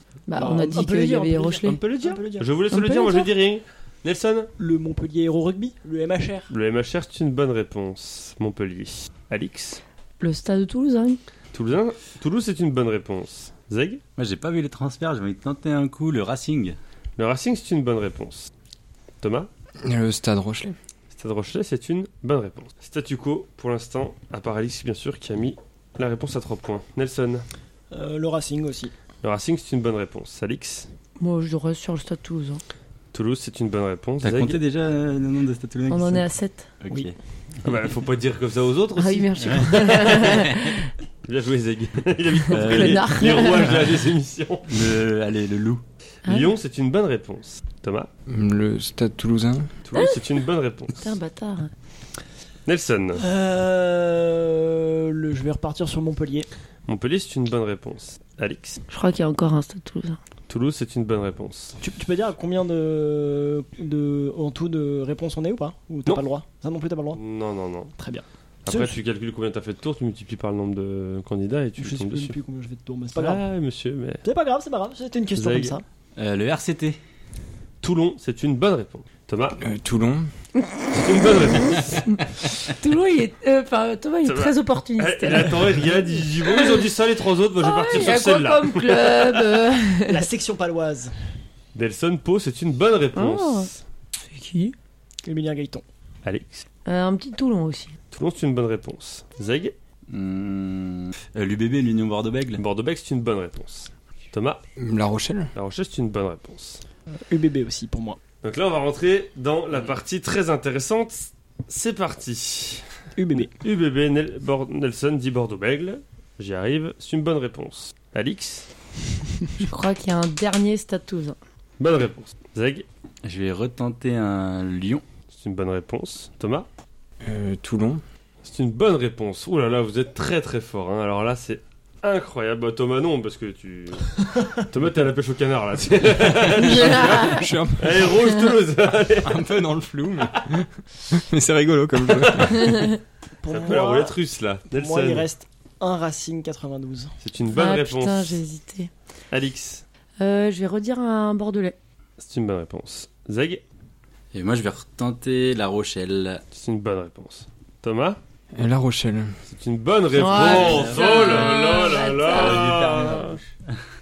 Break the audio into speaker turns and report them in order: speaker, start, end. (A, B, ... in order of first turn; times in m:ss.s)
0:00.3-0:01.8 A
0:00.4-0:02.5 B
0:01.6-0:04.5 C
0:02.7-0:03.3 A
0:04.6-0:06.5 B
0:06.5-0:09.8 C
0:10.2-0:11.2 A
0:11.5-0:14.0 C
0:14.2-0:16.8 D
0:17.2-0:18.5 C
0:19.2-0:19.5 C
0:19.8-0:20.7 E
0:21.1-0:27.4 C
0:27.9-0:28.9 B
0:29.2-0:30.9 C
0:31.2-0:32.6 A
0:33.1-0:34.6 C
0:34.2-0:36.3 D
0:35.9-0:36.7 A
0:36.8-0:37.1 D
0:37.6-0:40.5 C
0:39.0-0:40.9 A
0:39.4-0:40.4 D
0:41.2-0:44.9 C
0:42.5-0:44.0 D
0:42.5-0:43.7 A
0:44.7-0:45.8 D
0:46.2-0:46.5 A
0:46.2-0:48.1 C
0:48.3-0:49.7 E
0:49.8-0:51.1 C
0:49.9-0:50.2 A
0:51.0-0:51.7 A
0:52.6-0:53.2 C
0:53.1-0:56.5 B
0:56.9-0:58.8 C
0:58.9-1:00.2 A
1:00.5-1:01.8 C
1:01.8-1:07.2 B
1:07.1-1:07.9 C
1:08.0-1:08.9 B
1:08.6-1:12.3 C
1:11.8-1:13.4 B
1:13.1-1:14.2 C
1:14.2-1:15.8 B
1:15.3-1:15.8 C
1:16.2-1:17.0 D
1:17.8-1:19.6 C
1:19.6-1:20.3 E
1:20.6-1:25.6 A
1:20.9-1:22.0 C
1:24.2-1:29.5 C
1:27.6-1:30.2 A
1:30.1-1:31.1 B
1:31.7-1:33.8 C
1:33.1-1:33.7 A
1:34.2-1:34.7 A
1:35.2-1:35.8 B
1:36.2-1:36.6 C
1:36.8-1:37.9 A
1:38.1-1:39.7 C
1:40.1-1:42.6 D
1:42.6-1:44.6 C
1:44.8-1:45.5 E
1:45.5-1:46.8 C
1:47.3-1:48.2 B
1:48.4-1:52.8 C
1:53.2-1:53.5 B
1:53.4-1:58.7 C
1:59.6-2:01.4 A
2:01.8-2:02.8 C
2:03.2-2:05.0 D
2:05.3-2:06.7 C
2:07.2-2:08.0 E
2:08.4-2:19.4 C
2:16.4-2:18.2 E
2:16.6-2:17.4 A
2:19.2-2:22.9 E
2:22.1-2:22.6 C
2:22.6-2:23.0 A
2:23.4-2:24.2 B
2:23.5-2:25.2 C
2:24.7-2:27.1 B
2:27.2-2:28.4 C
2:27.5-2:28.9 A
2:29.3-2:29.8 C
2:30.2-2:31.8 A
2:32.2-2:33.6 C
2:34.3-2:36.4 D
2:36.5-2:38.2 C
2:38.5-2:39.3 E
2:39.5-2:43.4 C
2:40.1-2:42.8 A
2:40.2-2:41.6 D
2:42.3-2:43.5 D